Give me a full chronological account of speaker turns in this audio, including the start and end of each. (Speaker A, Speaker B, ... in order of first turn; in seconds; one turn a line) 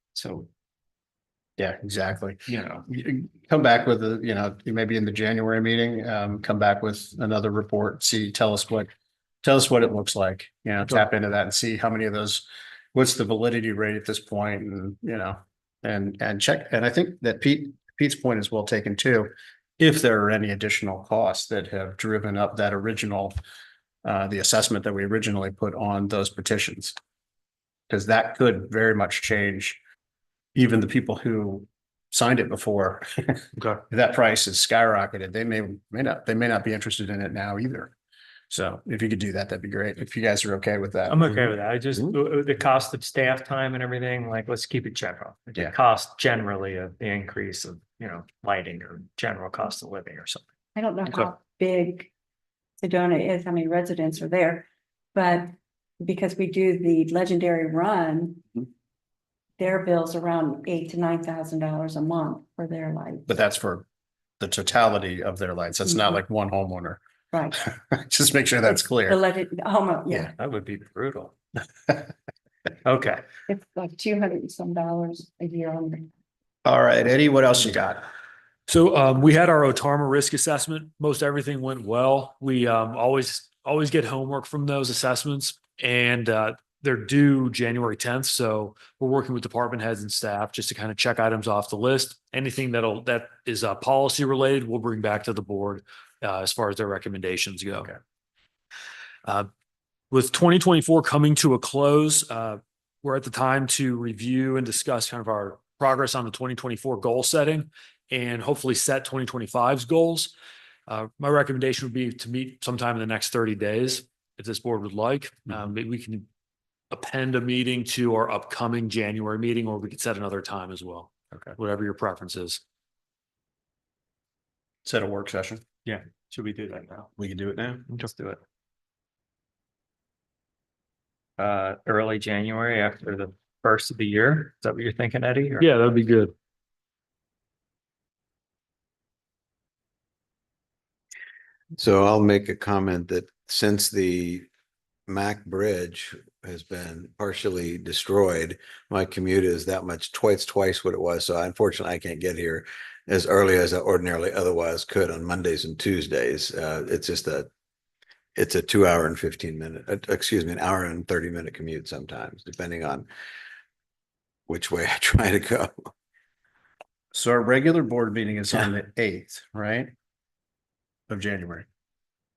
Speaker A: 0.1-0.5
Speaker B: 1.6-8.9
Speaker A: 2.5-2.9
Speaker B: 9.4-23.4
Speaker B: 24.0-26.9
Speaker B: 27.9-29.8
Speaker B: 30.5-37.9
Speaker B: 38.5-41.2
Speaker A: 41.1-50.4
Speaker C: 50.8-52.1
Speaker C: 52.8-58.6
Speaker C: 59.6-63.3
Speaker B: 63.3-63.8
Speaker B: 64.4-67.0
Speaker B: 67.5-69.2
Speaker C: 69.1-70.3
Speaker A: 70.4-71.3
Speaker A: 72.8-73.2
Speaker C: 73.5-76.1
Speaker B: 76.6-78.0
Speaker D: 78.7-97.9
Speaker D: 100.1-110.3
Speaker D: 110.9-116.3
Speaker D: 116.9-122.6
Speaker B: 124.8-125.6
Speaker A: 125.8-127.1
Speaker B: 127.2-127.8
Speaker A: 127.9-128.4
Speaker A: 131.4-135.7
Speaker D: 135.6-136.3
Speaker E: 141.8-144.5
Speaker E: 145.1-157.5
Speaker E: 158.3-163.1
Speaker E: 164.5-165.9
Speaker B: 167.1-169.9
Speaker B: 171.1-171.7